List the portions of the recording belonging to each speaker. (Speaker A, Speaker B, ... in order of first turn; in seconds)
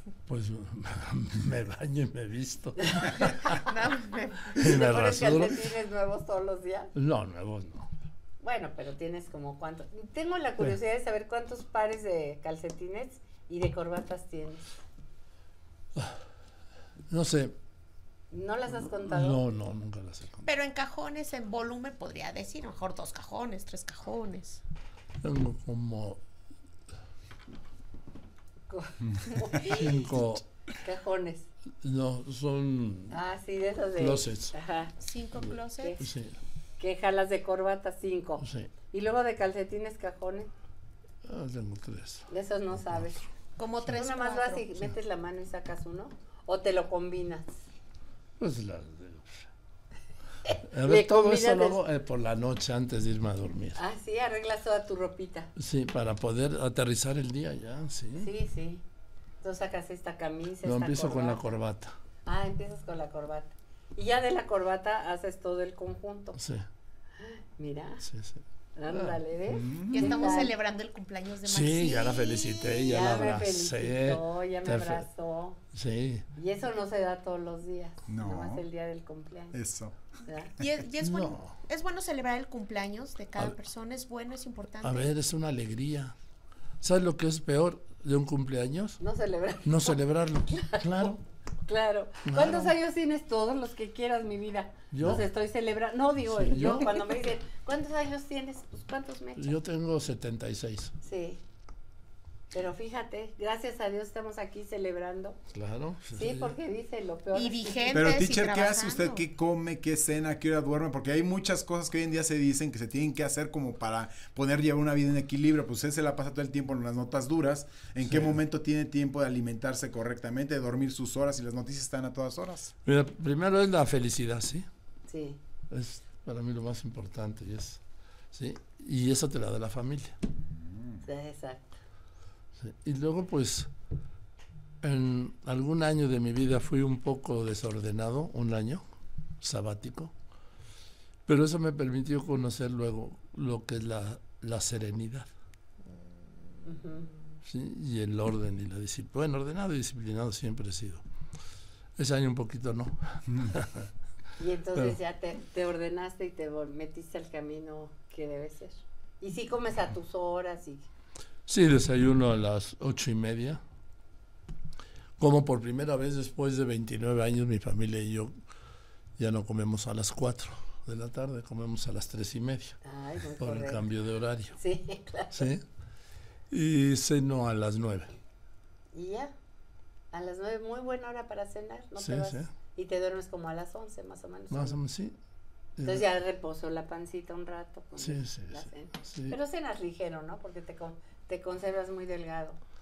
Speaker A: 0.3-3.6, 4.5-5.6, 7.0-7.9, 17.1-17.6, 19.0-20.5, 25.2-26.2, 29.6-30.5, 31.8-33.2, 34.0-34.5, 35.4-36.4, 38.4-38.7, 41.2-44.1, 48.4-49.5, 50.6-53.8, 55.6-58.3, 60.6-61.9, 66.3-66.7, 68.0-69.2, 71.5-75.0, 75.7-76.3, 81.0-81.5, 84.8-86.1, 86.8-89.0, 89.6-91.2, 92.2-92.7, 94.9-95.3, 96.2-96.9, 99.4-100.9, 105.5-106.5, 118.0-118.4, 122.8-124.7, 125.7-127.8, 128.3-130.2, 132.6-133.7, 134.8-138.8, 139.4-140.1, 141.3-145.3, 147.4-151.0, 152.0-153.9, 161.5-163.6, 165.2-168.3, 169.2-172.8, 173.4-174.6, 175.3-175.6, 176.5-178.1, 182.0-182.5, 184.5-185.2, 185.8-186.1, 188.0-189.4
Speaker B: 3.2-3.5, 4.5-6.9, 8.4-14.7, 18.3-19.4, 28.7-30.2, 30.8-31.5, 33.1-34.9, 35.8-36.1, 36.8-40.5, 42.3-43.2, 43.9-47.6, 50.5-51.8, 53.8-55.5, 58.2-58.8, 59.4-61.5, 62.3-66.4, 67.2-68.0, 68.8-70.5, 72.8-75.6, 76.3-79.6, 80.2-80.5, 89.0-90.0, 90.6-91.1, 91.7-99.6, 101.0-101.4, 102.5-105.4, 106.1-108.2, 125.1-125.4, 131.0-131.8, 146.7-147.1, 154.4-160.9, 172.8-173.9, 174.6-175.5, 178.9-179.3, 180.1-184.8, 185.8-192.6
Speaker C: 3.6-4.5, 20.4-24.6, 35.0-36.0, 43.6-44.7, 69.9-72.9, 80.6-85.1, 107.3-109.2
Speaker D: 69.5-70.0, 78.1-78.7, 79.5-80.0, 107.9-122.7, 130.6-131.0